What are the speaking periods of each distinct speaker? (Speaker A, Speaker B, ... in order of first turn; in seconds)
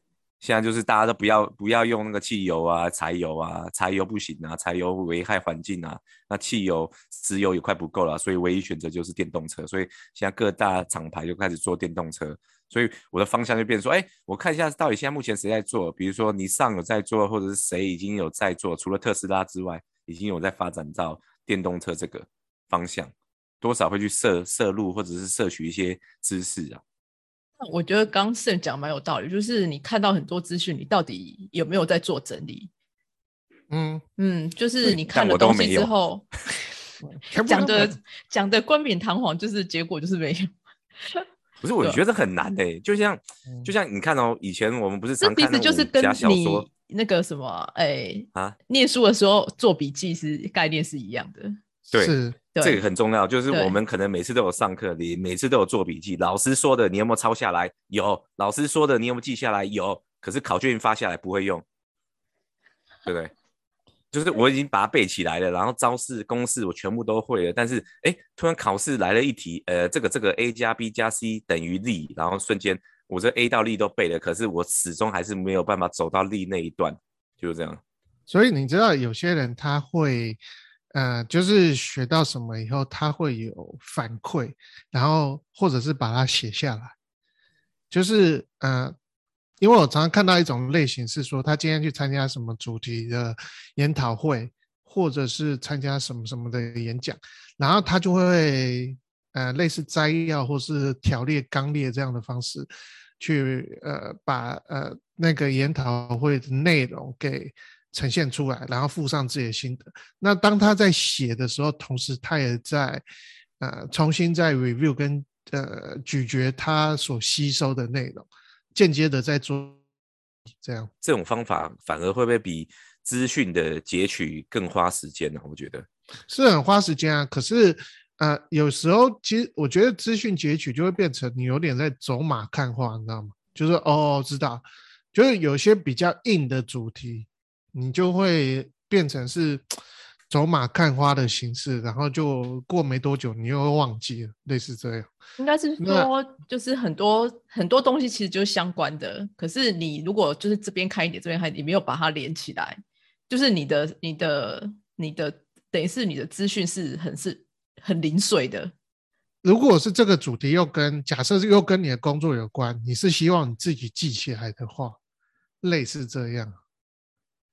Speaker A: 0.4-26.8, 34.8-35.9, 41.6-46.7, 51.9-61.6, 63.1-63.3, 64.1-77.8, 121.0-125.9
Speaker B: 27.6-32.7, 34.2-36.3, 37.5-41.3, 45.2-51.6, 52.5-52.8, 53.5-53.8, 145.4-158.7
Speaker C: 33.7-34.0, 37.1-38.0, 51.9-52.4, 78.3-80.4, 80.9-86.9, 87.9-89.0, 89.6-102.7, 103.2-113.0, 113.6-119.8, 120.6-120.9, 126.3-139.6, 140.3-145.1, 145.8-146.1, 159.4-165.0, 165.6-166.6